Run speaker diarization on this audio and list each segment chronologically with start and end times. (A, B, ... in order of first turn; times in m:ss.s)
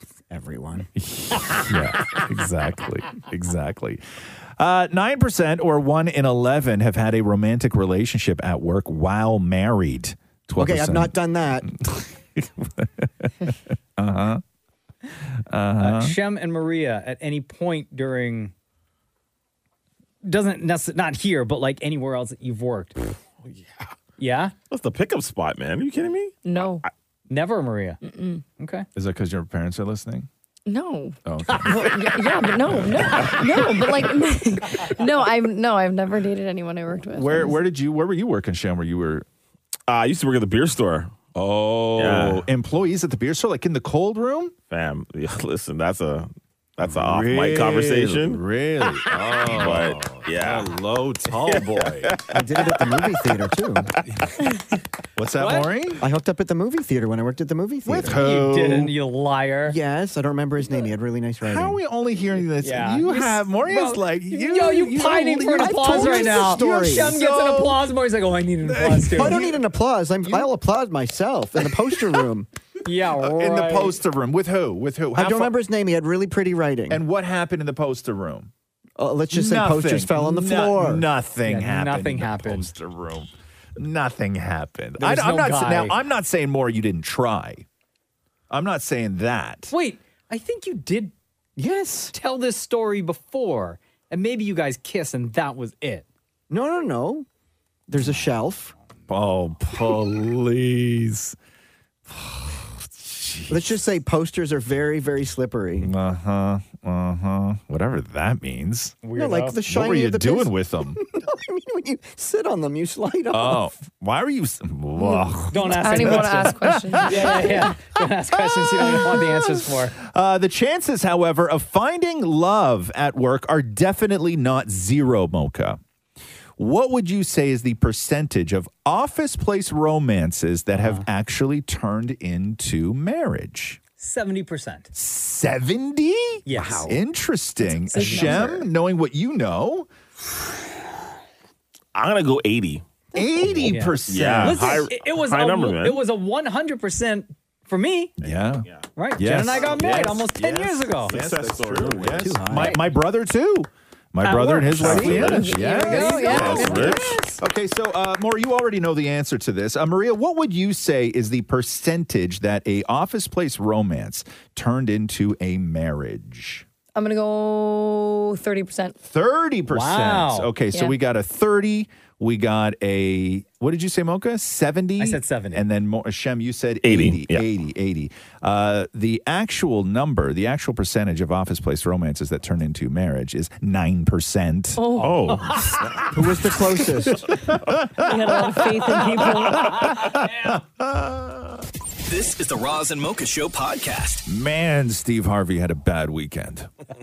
0:00.3-0:00.9 A
0:00.9-0:04.0 B
0:04.6-0:14.4 B
0:10.6-0:11.6 A
0:15.3-0:16.2 B
0:15.8-0:18.5 C
0:20.2-0:23.0 C
0:23.4-0:23.9 D
0:24.2-0:24.5 C
0:24.7-0:26.9 D
0:26.4-0:26.8 E
0:27.3-0:28.0 C
0:28.0-0:28.4 E
0:28.6-0:28.8 C
0:28.9-0:30.3 B
0:30.7-0:37.6 E
0:31.2-0:32.0 B
0:32.7-0:33.7 B
0:37.1-0:39.2 B
0:39.9-0:41.1 D
0:41.3-0:44.5 B
0:42.0-0:42.5 D
0:44.7-0:48.4 D
0:46.8-0:52.2 B
0:49.1-0:50.7 D
0:51.4-0:52.9 D
0:52.3-0:53.9 A
0:54.1-0:54.4 B
0:55.2-0:56.0 B
0:55.4-0:55.7 C
0:56.0-0:58.2 A
0:57.8-0:58.9 B
0:58.1-0:59.8 C
0:59.6-1:01.8 A
1:01.4-1:07.8 B
1:02.6-1:09.4 C
1:05.7-1:07.2 A
1:08.6-1:09.6 B
1:09.1-1:12.5 A
1:12.8-1:14.0 C
1:13.2-1:15.5 B
1:15.2-1:17.0 A
1:16.9-1:18.5 B
1:19.0-1:21.0 A
1:19.3-1:27.6 B
1:21.4-1:22.7 C
1:25.0-1:25.9 C
1:28.5-1:29.7 B
1:29.7-1:36.0 C
1:36.5-1:37.2 A
1:37.9-1:38.7 A
1:39.1-1:41.4 B
1:42.1-1:43.8 B
1:43.5-1:45.9 A
1:45.8-1:49.0 B
1:49.0-1:49.6 C
1:49.1-1:53.6 A
1:49.7-1:51.0 B
1:53.3-1:57.4 B
1:55.0-1:57.6 E
1:55.5-1:59.9 C
1:58.4-2:05.8 B
2:06.6-2:13.8 B
2:10.7-2:11.0 C
2:14.0-2:14.9 C
2:14.9-2:19.9 B
2:16.4-2:17.0 C
2:17.6-2:18.5 C
2:18.0-2:18.5 E
2:21.9-2:22.8 D
2:23.1-2:24.8 B
2:23.2-2:23.7 A
2:23.6-2:28.1 C
2:24.0-2:26.0 D
2:28.2-2:28.9 D
2:28.2-2:28.6 B
2:29.0-2:31.1 C
2:29.2-2:46.6 B
2:29.4-2:32.3 D
2:32.1-2:32.8 A
2:32.5-2:32.8 C
2:34.2-2:37.2 C
2:34.8-2:35.6 D
2:35.1-2:37.2 E
2:36.2-2:37.1 D
2:47.0-2:49.0 E
2:49.0-3:04.9 B
2:49.7-2:50.5 C
2:55.0-2:55.6 C
2:56.8-2:57.4 D
3:04.8-3:05.3 E
3:05.0-3:05.5 D
3:05.3-3:05.7 C
3:06.1-3:07.2 A
3:07.3-3:11.6 B
3:08.0-3:10.0 E
3:08.9-3:10.6 C
3:12.0-3:14.2 F
3:14.2-3:16.7 B